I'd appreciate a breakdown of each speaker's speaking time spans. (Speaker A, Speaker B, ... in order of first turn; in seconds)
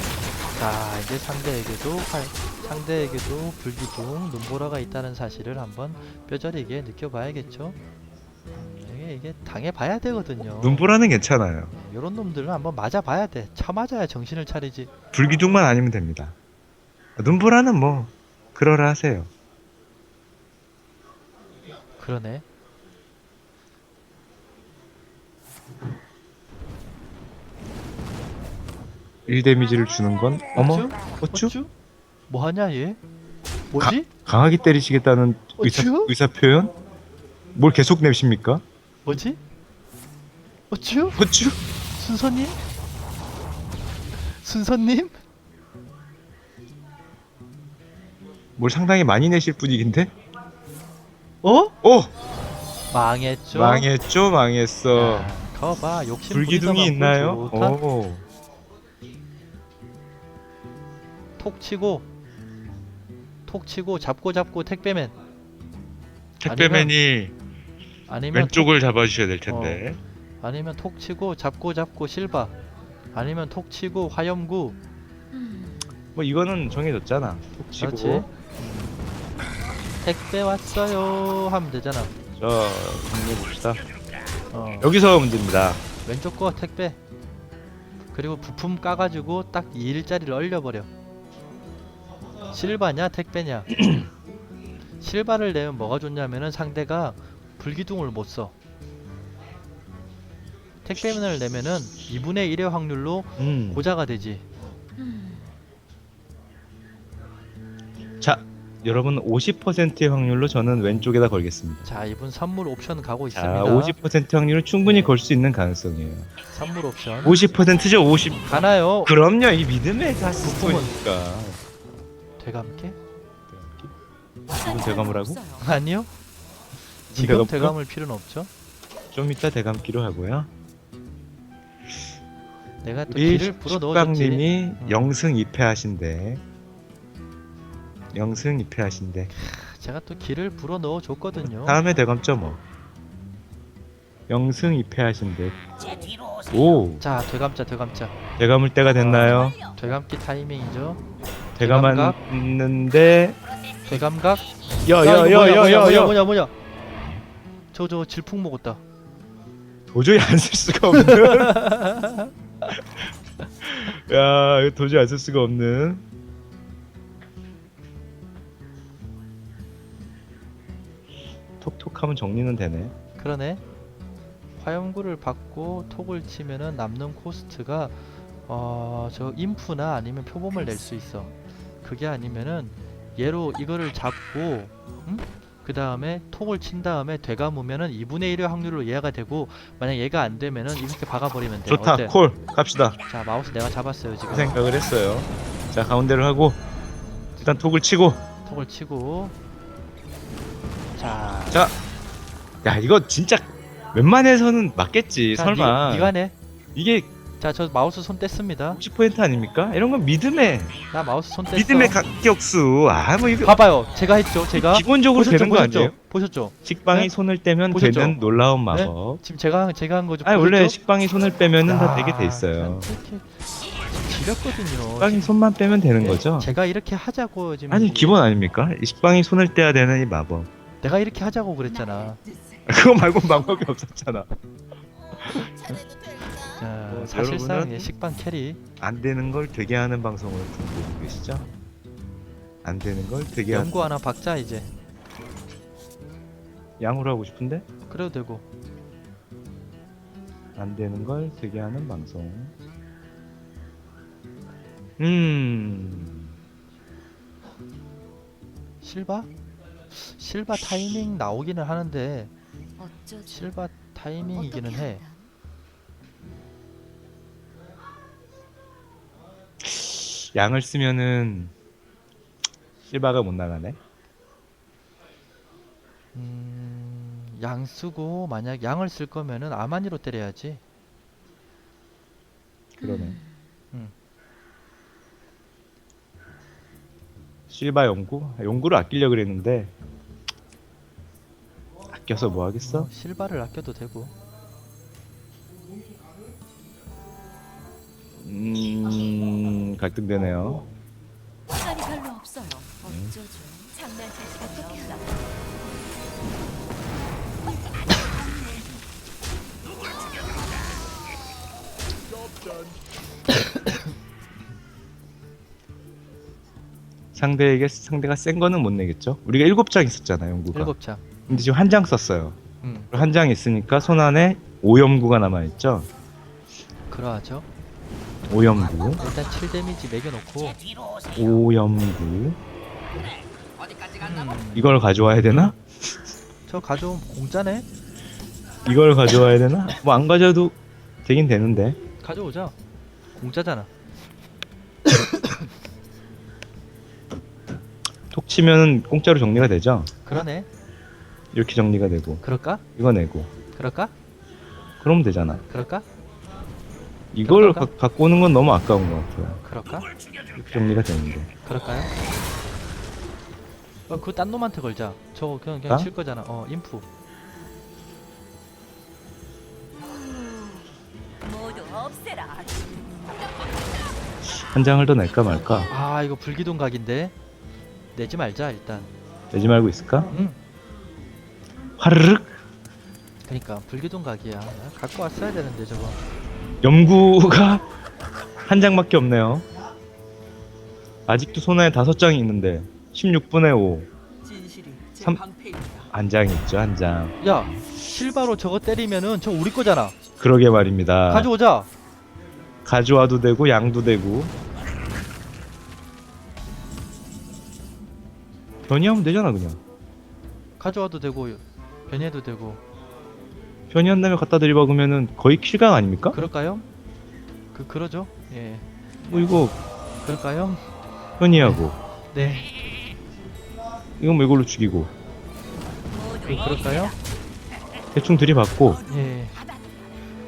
Speaker A: 0.6-7.8, 8.5-10.9, 11.7-14.9, 22.0-22.4, 30.5-31.7, 32.3-33.0, 33.7-34.1, 35.6-36.1, 39.0-39.4, 40.7-41.2, 42.0-42.6, 44.3-45.2, 51.4-51.7, 52.9-53.9, 54.9-57.8, 61.4-62.0, 63.5-65.2, 66.5-66.9, 68.1-68.7, 69.5-69.8, 70.4-72.5, 73.1-74.8, 77.8-79.0, 80.0-82.1, 84.5-84.9, 86.0-87.0, 88.1-90.9, 92.5-93.8, 95.0-98.5, 100.8-104.4, 111.8-114.0, 114.8-115.2, 116.5-117.4, 118.5-119.2, 120.4-120.9, 122.4-123.0, 125.6-126.1, 127.1-128.5, 132.8-135.1, 139.4-141.8, 147.0-148.1, 149.0-151.0, 151.6-152.2, 153.8-156.5, 157.7-158.8, 161.0-162.3, 173.2-173.6, 174.6-181.3, 181.8-192.1, 193.1-194.6, 197.1-197.5, 198.4-199.3, 200.9-201.7, 205.3-206.3, 207.4-208.8, 210.9-212.0, 213.4-217.1, 217.7-218.2, 218.7-220.8, 221.6-223.3, 223.9-225.3, 226.0-228.2, 230.8-232.2, 236.6-238.6, 243.5-244.7, 247.9-248.4, 258.8-259.3, 259.9-262.3, 263.3-265.0, 276.1-280.6, 292.6-294.1, 320.5-321.2, 322.6-322.9, 326.9-327.4, 329.0-330.6, 333.9-334.8, 336.5-337.6, 342.0-342.5, 343.1-343.7, 345.0-345.4, 350.0-350.5, 352.2-352.6, 353.5-353.9, 355.5-355.9, 357.2-357.7, 359.4-359.9, 361.4-361.9, 363.9-366.9, 375.7-377.1, 377.9-378.9, 380.1-380.4, 383.2-386.0, 397.2-400.0, 401.1-401.7, 410.6-412.6, 416.1-416.6, 417.5-418.7, 420.0-420.7, 421.4-421.6, 422.1-422.5, 426.2-426.9, 428.9-429.4
Speaker B: 10.6-11.7, 15.1-16.4, 17.2-19.3, 29.3-31.5, 33.8-36.7, 37.5-38.6, 41.2-41.6, 48.6-50.1, 51.8-52.1, 53.5-55.3, 56.3-58.2, 66.4-67.3, 68.3-70.0, 76.1-78.2, 82.4-83.8, 84.8-85.8, 103.4-103.9, 108.2-111.9, 113.3-116.3, 117.2-121.6, 123.5-123.9, 124.5-125.4, 127.1-127.7, 129.1-130.5, 133.1-136.4, 138.1-139.3, 141.4-142.6, 144.3-145.6, 146.5-147.0, 148.4-149.6, 151.6-153.4, 154.8-156.2, 159.9-161.6, 163.6-166.0, 171.6-172.9, 191.7-193.0, 194.3-196.6, 197.4-198.2, 202.6-206.1, 206.7-207.1, 208.7-210.8, 211.5-213.6, 214.5-215.9, 216.6-219.2, 220.2-222.9, 225.0-226.5, 227.7-230.5, 232.7-234.3, 236.9-237.9, 238.8-241.5, 242.6-243.8, 246.8-247.7, 250.6-252.5, 255.0-256.3, 269.6-271.5, 272.8-273.8, 282.8-283.2, 287.5-289.7, 291.9-292.9, 298.2-300.7, 302.8-303.2, 317.1-320.7, 321.2-322.4, 322.9-325.9, 328.3-329.0, 331.1-332.4, 334.5-335.6, 338.6-341.8, 348.1-349.9, 351.3-352.2, 352.8-353.3, 354.8-355.4, 357.1-359.4, 360.3-361.3, 374.4-375.7, 379.3-380.1, 381.8-382.4, 386.6-387.6, 388.4-389.4, 391.1-393.9, 395.9-397.1, 400.2-401.3, 402.6-404.3, 408.7-409.6, 413.7-416.2, 419.0-419.6, 421.2-421.8, 424.0-424.9, 427.9-428.8
Speaker C: 75.3-75.8, 105.0-105.5, 124.7-125.7, 262.8-263.5, 264.4-265.3, 282.8-283.4, 301.5-305.1, 371.2-373.0